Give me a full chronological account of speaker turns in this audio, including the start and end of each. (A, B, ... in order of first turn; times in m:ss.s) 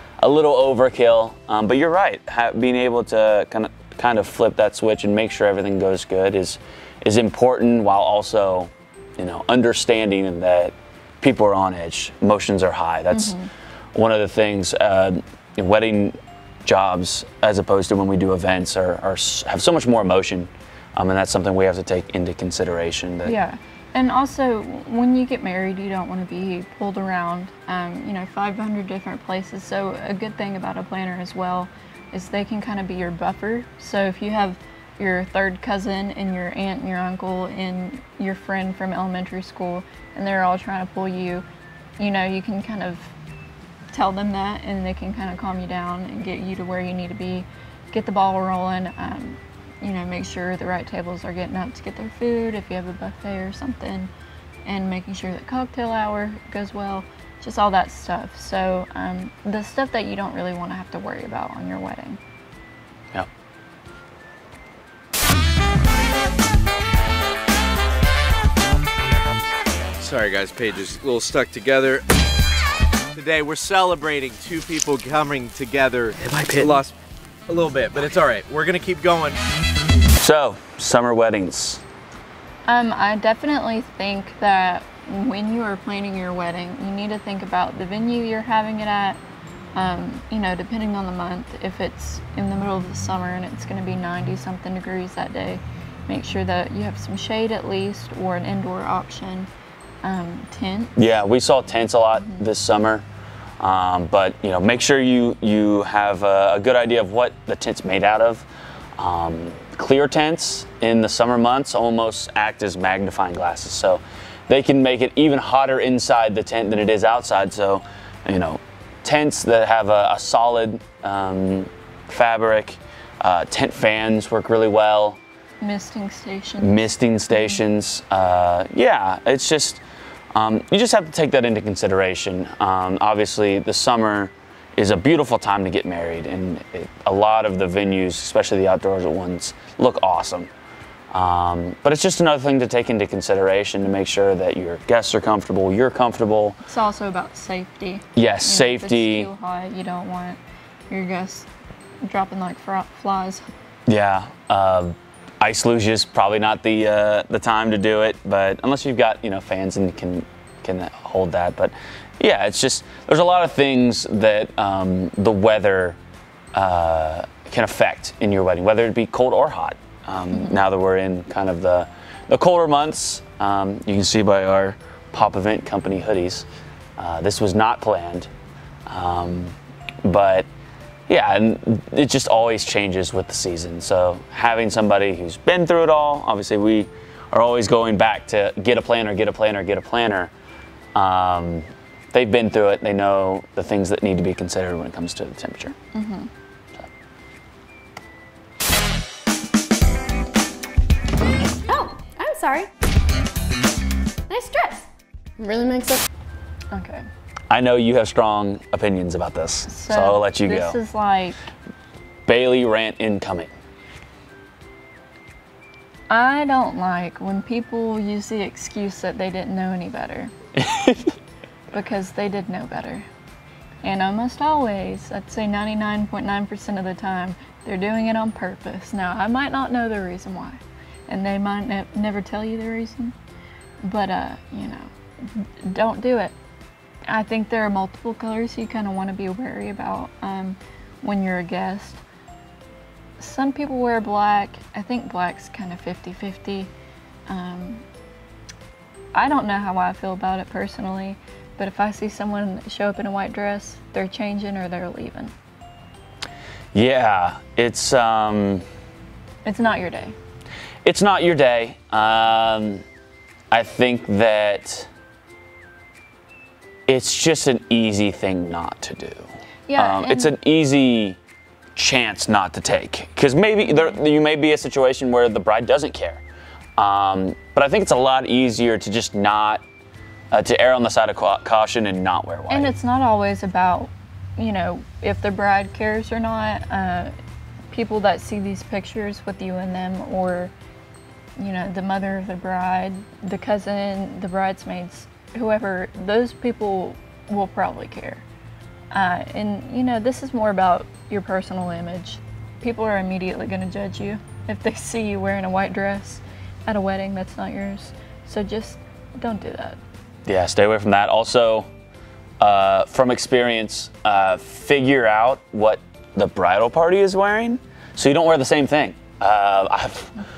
0:00.2-0:13.4 A
0:13.1-0:13.5 B
0:13.9-0:23.4 A
0:23.2-0:41.4 B
0:42.0-0:43.1 B
0:43.9-0:54.1 B
0:54.6-1:02.2 B
1:10.0-1:12.0 C
1:13.1-1:16.9 C
1:17.5-1:19.4 C
1:20.2-1:21.8 A
1:22.7-1:29.2 B
1:29.7-1:39.5 B
1:40.0-1:40.9 B
1:41.0-1:43.0 A
1:42.2-1:42.4 B
1:43.6-2:05.2 A
2:05.6-2:07.6 B
2:06.6-2:09.8 A
2:10.3-2:20.5 A
2:21.1-2:26.6 A
2:26.6-2:31.5 B
2:28.2-2:29.3 A
2:32.0-2:33.5 B
2:33.9-2:46.0 A
2:46.5-2:56.5 A
2:50.3-2:50.6 B
2:57.0-2:58.3 A
2:58.9-3:00.5 A
3:01.1-3:10.3 A
3:10.9-3:15.8 A
3:15.9-3:16.3 B
3:21.7-3:22.7 D
3:24.3-3:24.8 D
3:25.4-3:26.0 D
3:26.7-3:27.0 B
3:27.5-3:30.8 A
3:29.7-3:31.4 B
3:32.2-3:33.5 A
3:36.1-3:40.3 B
3:40.6-3:41.1 A
3:41.7-3:43.1 B
3:43.8-3:53.1 B
3:53.8-3:56.3 B
3:57.1-4:02.0 B
4:03.2-4:06.7 B
4:07.3-4:07.8 B
4:09.1-4:15.3 B
4:16.7-4:18.6 A
4:19.4-4:20.2 B
4:20.8-4:22.8 A
4:23.5-4:24.9 A
4:26.9-4:31.2 A
4:29.7-4:30.3 B
4:31.7-4:36.2 A
4:33.7-4:34.0 B
4:36.8-4:39.6 A
4:40.3-4:42.7 A
4:42.5-4:47.1 B
4:47.7-4:50.5 B
4:51.4-4:58.2 B
4:58.9-5:09.8 B
5:10.2-5:11.7 A
5:12.4-5:20.1 A